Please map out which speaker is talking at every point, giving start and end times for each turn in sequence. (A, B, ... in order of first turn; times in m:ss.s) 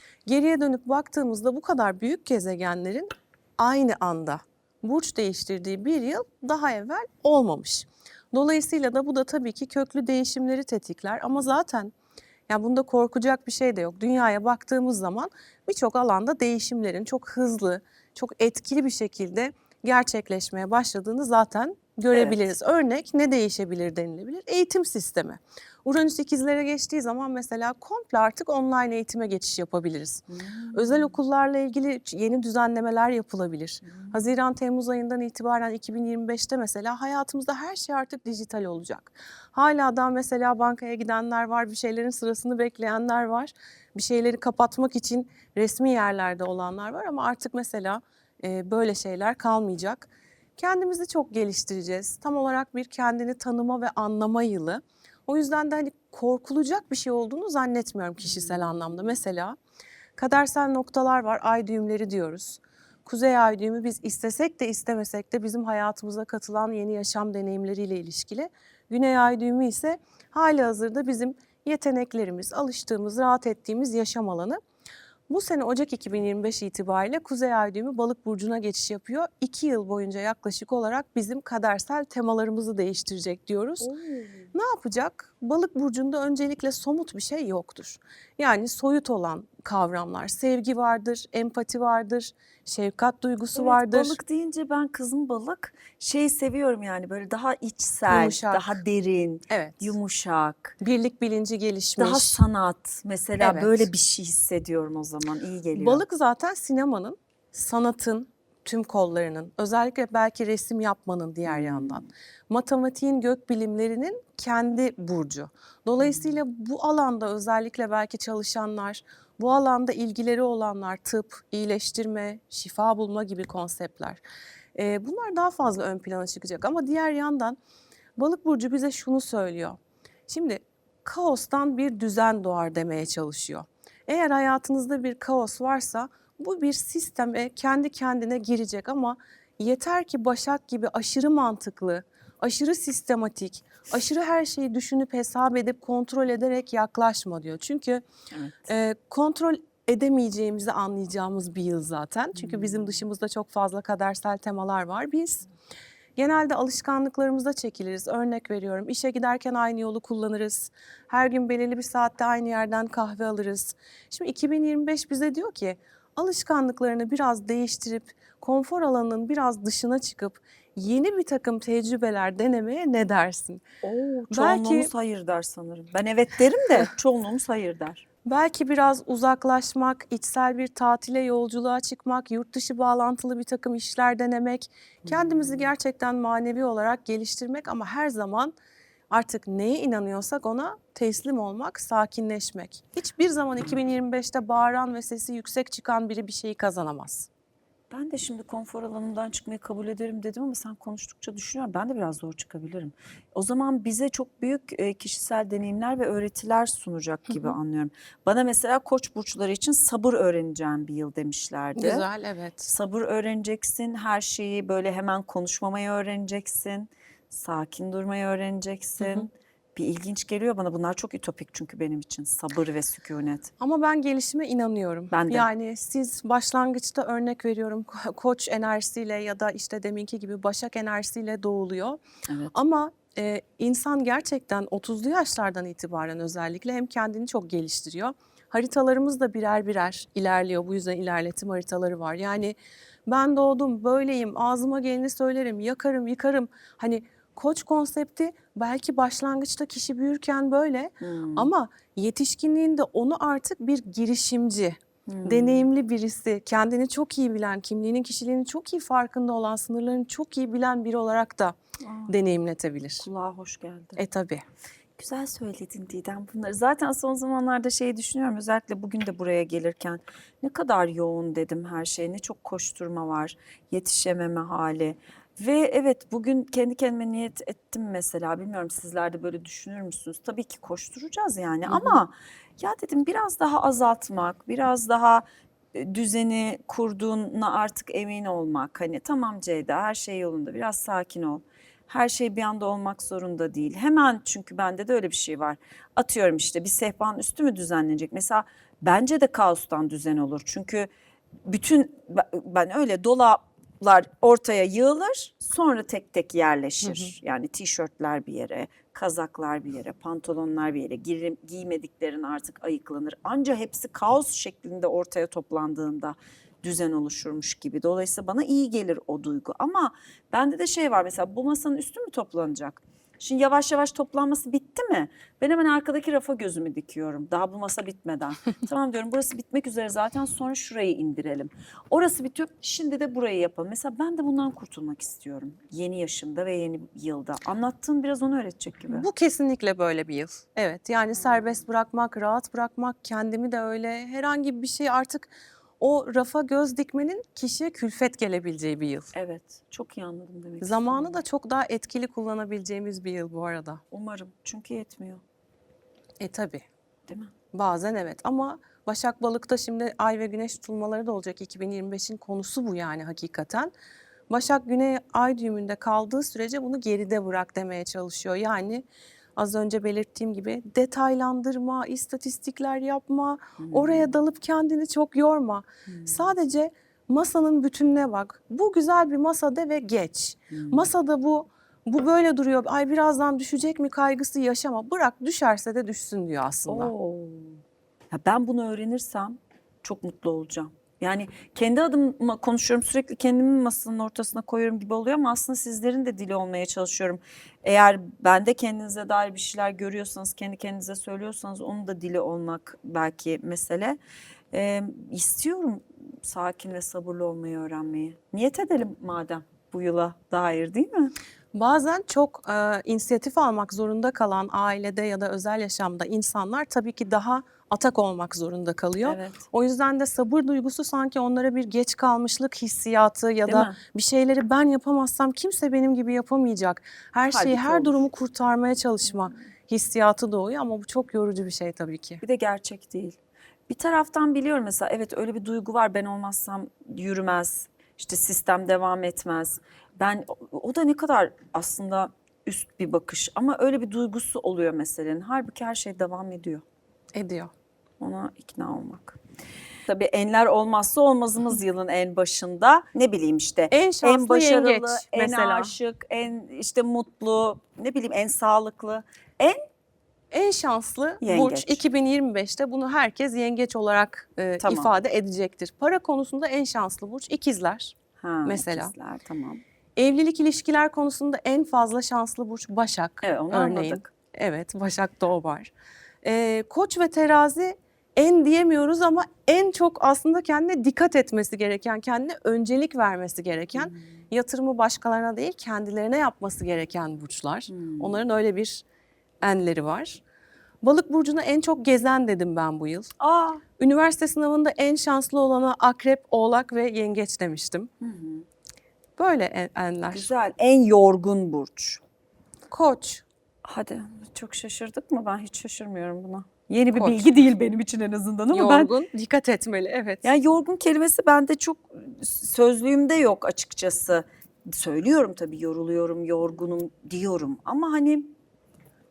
0:00.2-0:11.9 A
0:12.5-0:59.6 A
0:22.1-0:22.5 B
0:30.3-0:31.1 B
0:33.8-0:34.2 B
0:58.2-0:58.7 B
1:00.2-1:14.6 A
1:15.3-1:23.9 A
1:23.8-1:24.5 B
1:24.5-1:34.2 A
1:33.5-1:40.8 B
1:38.1-1:38.7 A
1:39.5-1:39.8 A
1:40.8-1:42.4 A
1:42.0-1:46.0 B
1:43.4-1:43.9 A
1:45.7-2:04.2 A
1:51.4-1:52.1 B
1:56.0-1:56.3 B
2:04.8-2:07.6 A
2:08.2-2:28.0 A
2:28.3-2:28.7 B
2:28.7-2:35.5 A
2:32.4-2:33.0 B
2:36.2-2:53.6 A
2:53.8-2:58.0 B
2:54.3-2:54.9 A
2:58.2-3:08.5 A
3:09.1-3:17.3 A
3:17.9-3:32.0 B
3:31.8-3:32.7 A
3:32.7-3:43.5 B
3:39.0-3:39.2 A
3:43.6-3:52.0 A
3:45.1-3:45.5 B
3:52.5-4:21.6 A
4:11.0-4:11.5 B
4:15.1-4:15.6 B
4:21.8-4:22.1 B
4:22.1-4:23.1 A
4:23.0-4:24.0 B
4:24.0-4:24.4 A
4:25.0-5:00.9 B
4:41.7-4:42.0 A
5:01.4-5:39.1 B
5:06.8-5:07.1 A
5:38.9-5:49.1 A
5:49.1-5:51.2 B
5:50.6-5:53.8 A
5:53.9-5:55.2 B
5:56.2-5:56.7 A
5:57.1-5:57.3 B
5:57.5-6:03.7 A
6:04.3-6:26.9 A
6:13.6-6:14.1 B
6:15.9-6:16.2 B
6:20.5-6:20.9 B
6:26.7-6:44.0 B
6:44.5-6:51.1 B
6:51.5-7:12.2 A
6:59.0-6:59.4 B
7:03.4-7:03.8 B
7:07.3-7:08.0 B
7:12.2-7:13.2 B
7:13.7-7:26.6 B
7:27.1-7:27.5 A
7:28.0-7:29.2 B
7:29.9-7:39.6 B
7:33.7-7:35.7 A
7:40.3-7:48.9 A
7:41.2-7:41.8 B
7:44.6-7:44.9 B
7:48.2-7:49.6 B
7:50.0-7:55.7 A
7:53.2-7:54.1 B
7:56.2-8:08.8 A
8:03.8-8:04.2 B
8:07.7-8:08.2 B
8:09.4-8:10.2 A
8:10.8-8:13.1 A
8:13.2-8:13.6 B
8:13.8-8:17.9 A
8:18.0-8:18.5 B
8:19.2-8:20.3 A
8:20.1-8:22.0 B
8:22.7-8:23.2 A
8:23.6-8:28.9 B
8:26.9-8:27.2 A
8:28.5-8:30.2 A
8:30.2-8:38.3 B